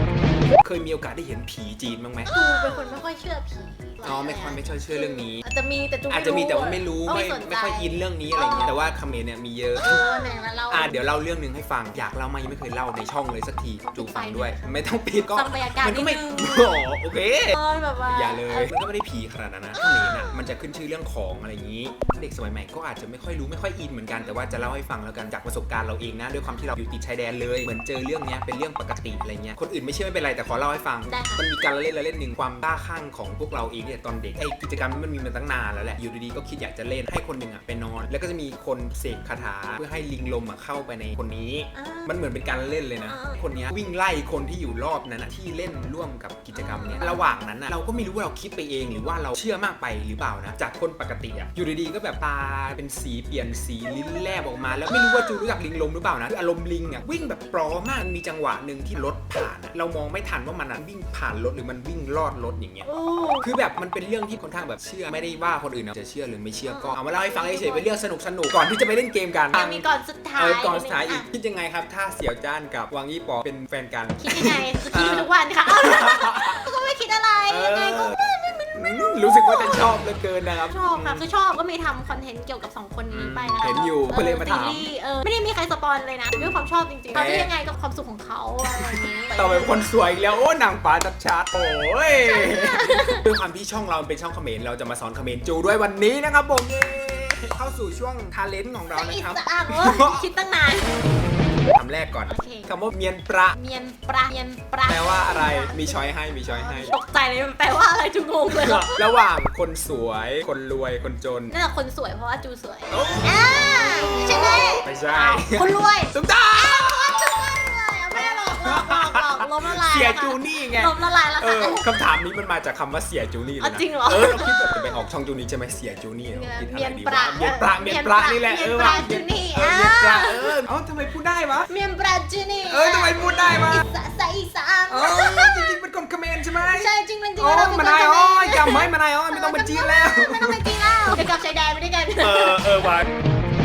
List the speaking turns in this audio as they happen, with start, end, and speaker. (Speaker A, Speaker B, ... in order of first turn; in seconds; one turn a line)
Speaker A: 0.6-2.3
Speaker B: 2.2-8.8
Speaker A: 4.0-5.4
Speaker A: 6.1-10.1
Speaker B: 9.8-11.0
Speaker A: 10.7-62.9
Speaker B: 13.8-14.7
Speaker B: 15.3-16.8
Speaker B: 17.5-18.7
Speaker B: 19.8-20.6
Speaker B: 24.1-24.7
Speaker B: 26.4-26.8
Speaker B: 31.1-31.4
Speaker B: 41.7-42.1
Speaker B: 43.0-43.4
Speaker B: 46.5-47.2
Speaker B: 54.9-55.4
Speaker B: 57.2-57.5
Speaker B: 62.8-63.5
Speaker A: 63.4-76.6
Speaker B: 66.7-67.9
Speaker B: 69.5-71.3
Speaker B: 74.2-80.0
Speaker A: 77.5-78.2
Speaker A: 78.7-81.2
Speaker B: 80.7-89.9
Speaker A: 83.1-84.9
Speaker A: 87.1-87.5
Speaker A: 88.8-100.3
Speaker B: 92.2-93.2
Speaker B: 98.9-101.2
Speaker A: 101.7-103.6
Speaker B: 102.2-102.7
Speaker B: 103.5-109.0
Speaker A: 104.9-106.9
Speaker A: 108.5-111.6
Speaker B: 111.5-121.9
Speaker A: 112.9-117.6
Speaker A: 118.1-131.7
Speaker B: 123.6-125.0
Speaker B: 126.3-130.6
Speaker B: 131.7-135.8
Speaker A: 132.7-133.8
Speaker A: 134.9-141.3
Speaker B: 136.4-142.7
Speaker A: 142.2-143.2